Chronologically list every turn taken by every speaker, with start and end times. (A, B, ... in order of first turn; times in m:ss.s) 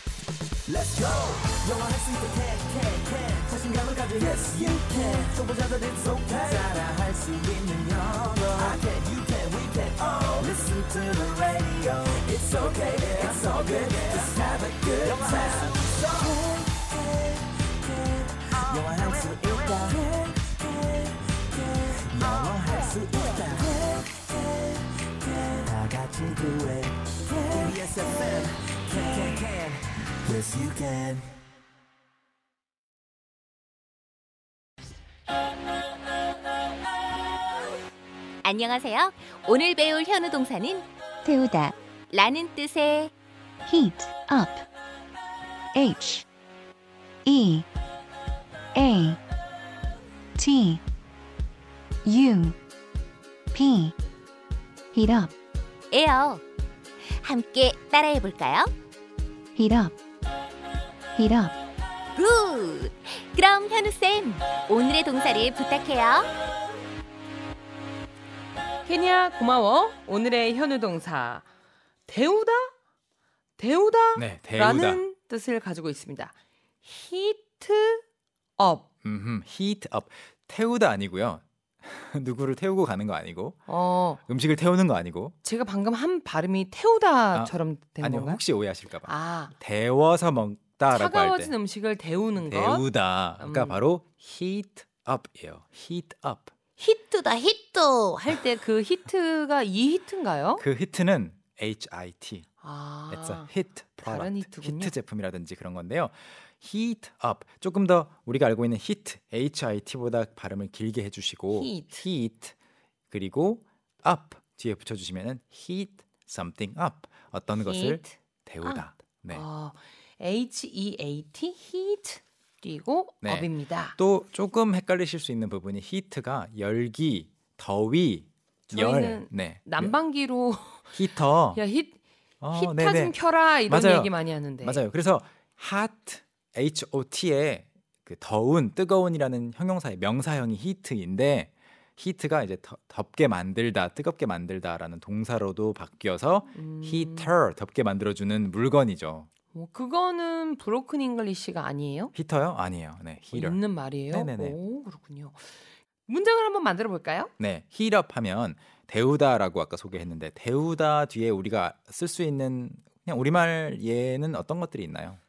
0:00.7-0:17.1 A
0:17.9-0:24.2 A
0:25.2-0:31.2 A
0:38.4-0:40.8 B
0:41.2-0:41.7 C
0:42.1-0:43.1 B
0:43.7-0:44.6 C
0:45.7-0:46.2 C
0:47.2-0:47.6 C
0:48.7-0:49.2 C
0:50.4-0:50.8 C
0:52.0-0:52.6 C
0:53.5-0:53.9 C
0:54.9-0:55.3 C
0:55.9-0:56.4 B
0:57.2-0:58.7 B
0:59.6-0:59.9 C
1:01.2-1:01.5 C
1:02.2-1:06.3 B
1:08.8-1:11.5 D
1:12.0-1:12.7 D
1:13.6-1:18.0 D
1:14.1-1:15.0 E
1:18.6-1:18.8 D
1:19.0-1:23.6 E
1:23.7-1:24.2 D
1:24.2-1:25.3 E
1:25.4-1:28.4 D
1:27.3-1:31.5 E
1:29.0-1:29.5 D
1:30.9-1:33.8 D
1:32.4-1:36.5 E
1:36.8-1:40.6 D
1:40.6-1:42.5 E
1:42.6-1:43.5 D
1:43.1-1:52.5 E
1:44.0-1:44.9 D
1:51.5-1:52.0 D
1:53.1-1:59.4 E
1:57.6-2:04.0 D
2:03.2-2:10.0 E
2:08.7-2:11.0 D
2:10.9-2:11.6 E
2:11.5-2:12.0 D
2:12.4-2:29.3 E
2:12.5-2:14.8 D
2:26.5-2:27.3 D
2:29.5-2:32.1 D
2:32.1-2:34.6 E
2:33.3-2:37.3 D
2:37.4-2:45.2 E